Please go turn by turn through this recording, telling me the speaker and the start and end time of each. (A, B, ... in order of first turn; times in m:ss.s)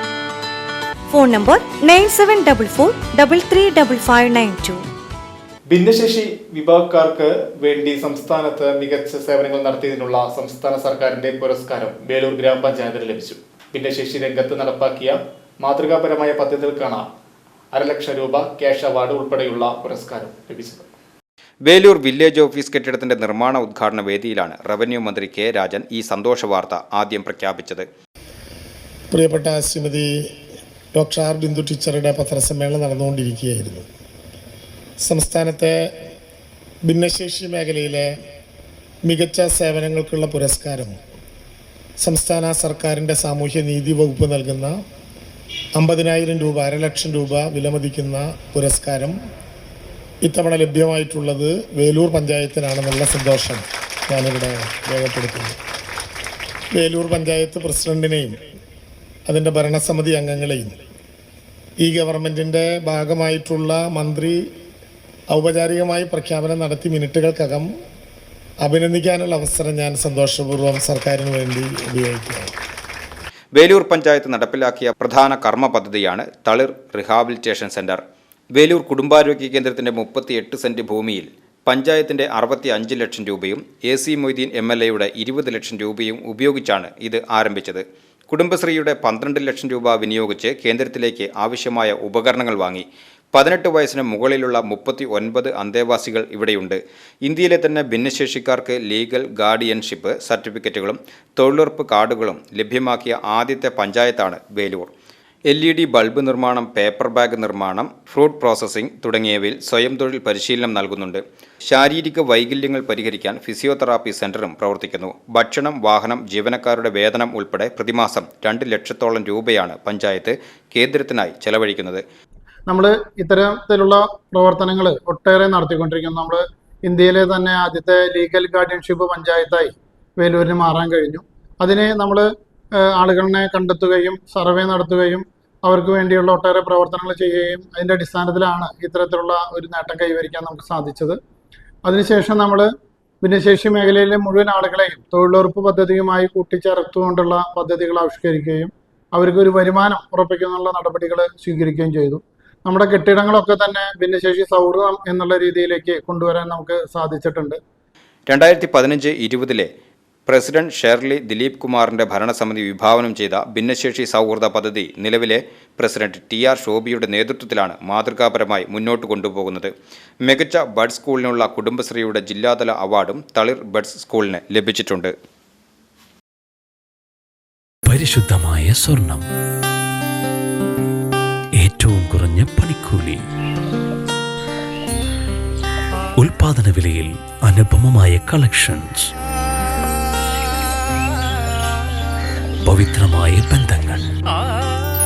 0:01.1-0:04.8 A
0:05.7-0:17.1 B
0:17.7-0:20.9 B
0:21.7-0:27.9 C
0:29.1-0:30.1 D
0:31.0-0:33.9 D
0:35.0-0:35.9 D
0:36.9-0:38.1 D
0:39.0-0:41.0 D
0:42.0-0:44.8 D
0:45.8-0:49.2 D
0:50.2-0:55.6 D
0:56.8-0:58.4 D
0:59.3-1:00.8 D
1:01.8-1:04.4 D
1:05.3-1:07.7 D
1:08.6-1:12.5 D
1:13.6-1:18.0 C
1:18.6-1:44.9 C
1:45.5-2:02.0 C
2:02.7-2:21.2 E
2:21.8-2:22.7 E
2:23.2-2:37.6 E
2:38.3-2:39.7 C
2:40.3-2:49.7 C
2:50.3-2:55.1 C
2:57.9-2:59.3 F
3:01.6-3:03.2 F
3:06.2-3:09.1 F
3:12.6-3:14.1 F